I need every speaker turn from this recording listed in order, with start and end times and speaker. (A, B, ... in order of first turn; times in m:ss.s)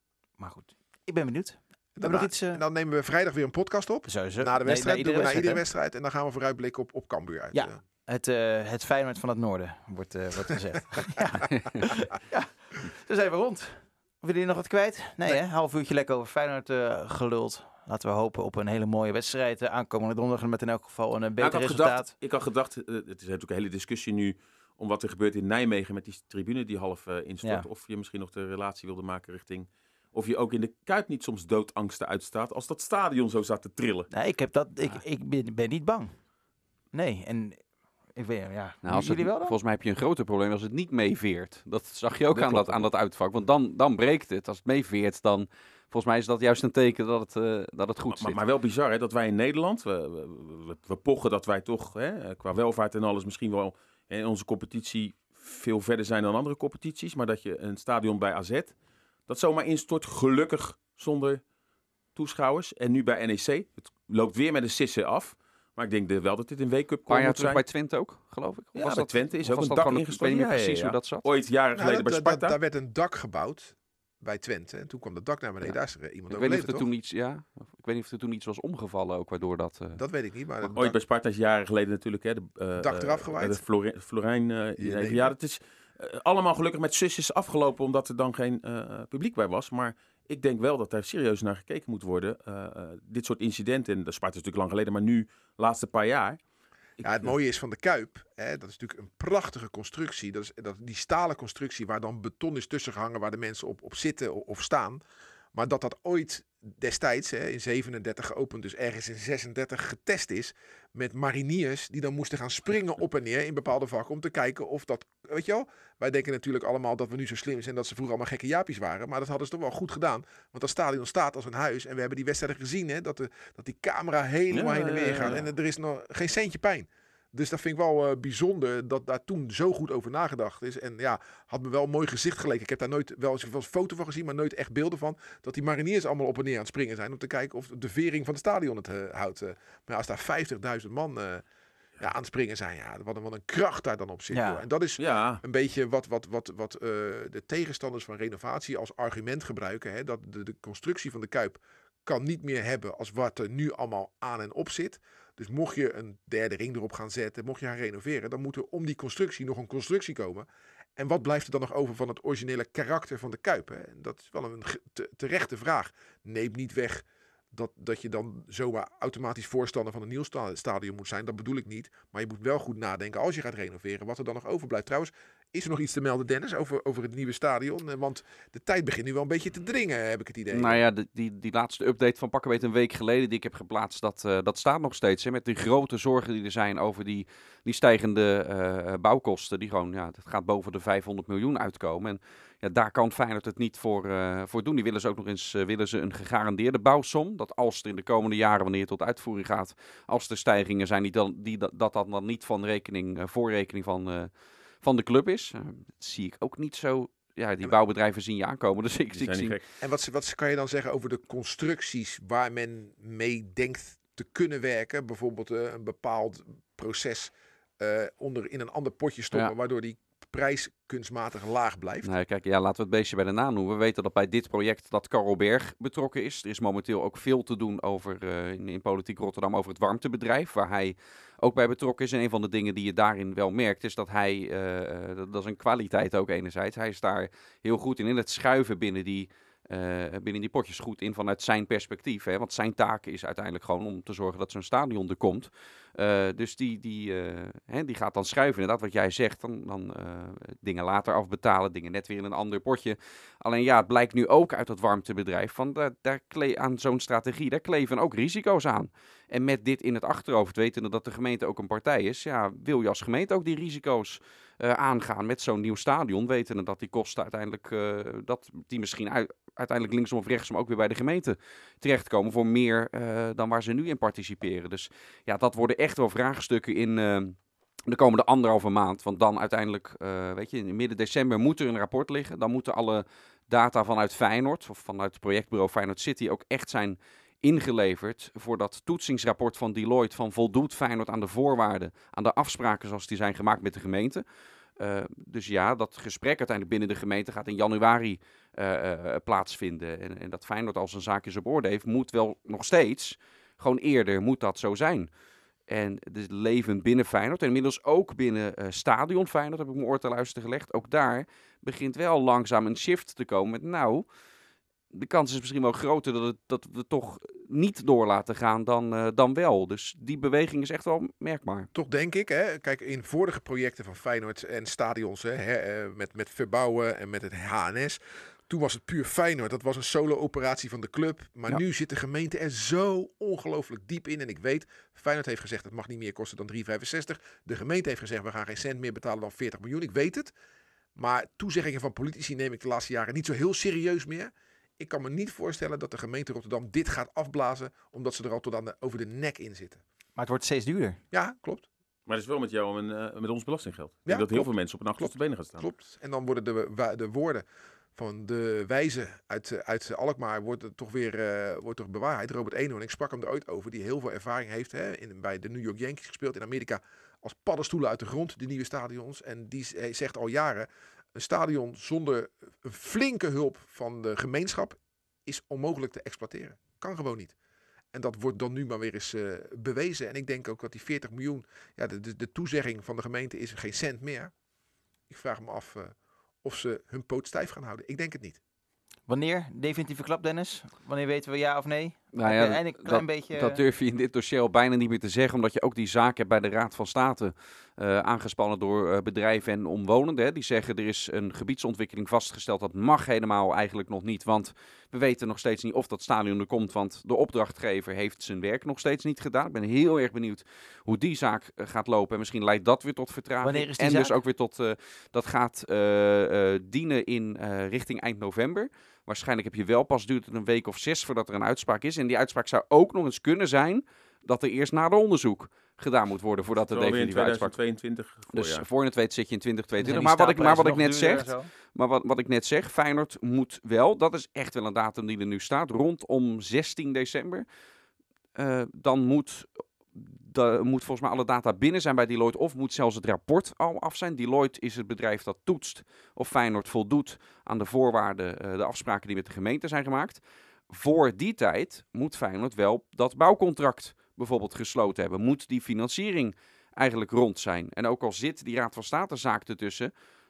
0:00.4-0:02.6 A
0:02.0-0:07.8 B
0:04.1-0:05.6 A
0:07.5-0:22.1 A
0:21.4-0:34.1 C
0:34.1-0:36.1 A
0:36.9-0:37.6 A
0:38.2-0:39.6 A
0:38.8-0:48.4 D
0:42.3-0:42.9 C
0:48.1-0:58.8 C
0:59.3-1:01.4 C
1:02.2-1:07.6 C
1:07.1-1:11.3 D
1:08.8-1:12.6 C
1:11.7-1:16.9 B
1:16.3-1:20.0 D
1:20.0-1:21.0 B
1:20.8-1:36.4 C
1:22.8-1:23.6 B
1:24.8-1:25.3 B
1:37.0-1:37.3 C
1:37.0-1:45.0 B
1:45.5-2:21.4 B
2:04.5-2:05.5 C
2:22.0-3:00.8 B
2:24.3-2:24.6 A
2:25.0-2:25.4 C
3:00.5-3:24.3 D
3:24.8-3:29.6 D
3:29.1-3:29.6 C
3:29.8-3:42.1 B
3:42.0-4:54.2 D
4:54.8-5:05.1 D
5:05.7-5:14.1 D
5:14.9-5:21.7 D
5:21.7-5:40.3 B
5:41.0-5:49.8 B
5:50.2-5:51.0 A
5:51.1-5:51.7 B
5:52.1-5:55.6 C
5:54.1-5:57.4 B
5:58.0-6:17.3 B
6:17.9-6:24.3 B
6:25.1-6:28.4 B
6:29.1-6:33.6 A
6:32.2-7:07.6 D
6:53.4-6:54.2 A
7:06.7-7:08.7 C
7:08.3-7:17.4 D
7:09.8-7:11.5 A
7:18.4-7:39.9 D